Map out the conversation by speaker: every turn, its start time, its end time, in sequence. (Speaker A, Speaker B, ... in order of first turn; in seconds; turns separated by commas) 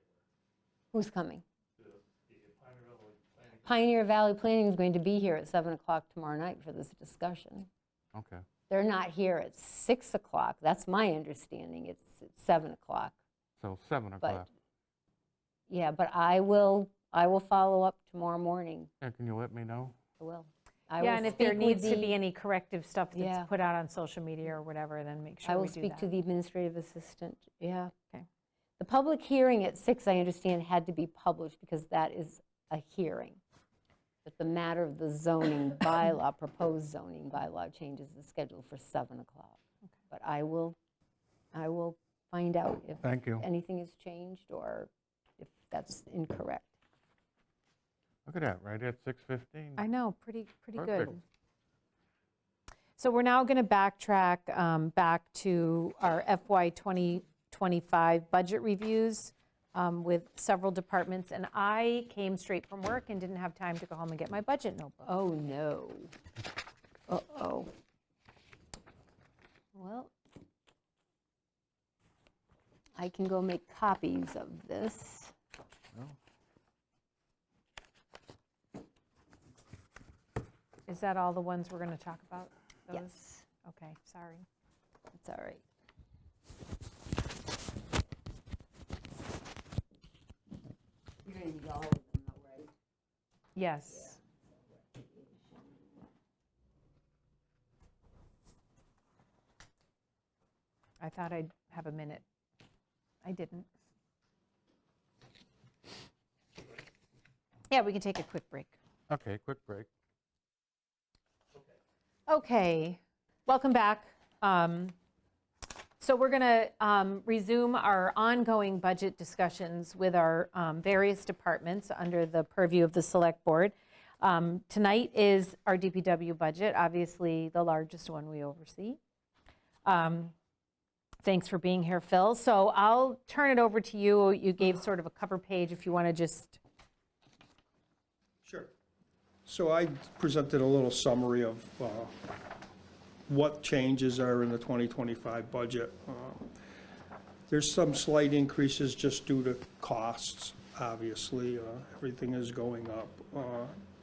Speaker A: 0.9-1.4, Speaker B: 2.6-3.2, Speaker A: 3.6-7.7, Speaker B: 8.1-8.4, Speaker A: 8.7-13.2, Speaker B: 13.6-14.5, Speaker A: 15.7-18.9, Speaker B: 19.0-19.9, Speaker A: 20.2-22.1, Speaker C: 21.0-26.1, Speaker A: 23.1-23.5, Speaker A: 25.4-27.9, Speaker A: 28.8-33.4, Speaker A: 34.2-39.6, Speaker A: 40.1-40.8, Speaker A: 41.5-46.7, Speaker B: 48.2-49.8, Speaker C: 49.8-51.2, Speaker B: 50.8-51.2, Speaker C: 53.0-65.1, Speaker A: 65.0-66.1, Speaker A: 67.1-67.7, Speaker C: 69.8-70.1, Speaker A: 69.8-70.1, Speaker A: 73.0-75.3, Speaker C: 80.9-84.5, Speaker A: 82.9-83.4, Speaker A: 85.1-85.6, Speaker A: 91.2-92.7, Speaker C: 93.5-94.2, Speaker A: 93.9-95.8, Speaker C: 101.0-102.2, Speaker C: 103.2-103.7, Speaker C: 107.7-108.7, Speaker B: 109.1-109.9, Speaker C: 112.3-114.9, Speaker C: 116.0-129.0, Speaker C: 129.8-130.3, Speaker C: 131.2-136.6, Speaker D: 138.4-138.7, Speaker D: 139.4-142.1, Speaker D: 143.3-146.4, Speaker D: 147.5-153.7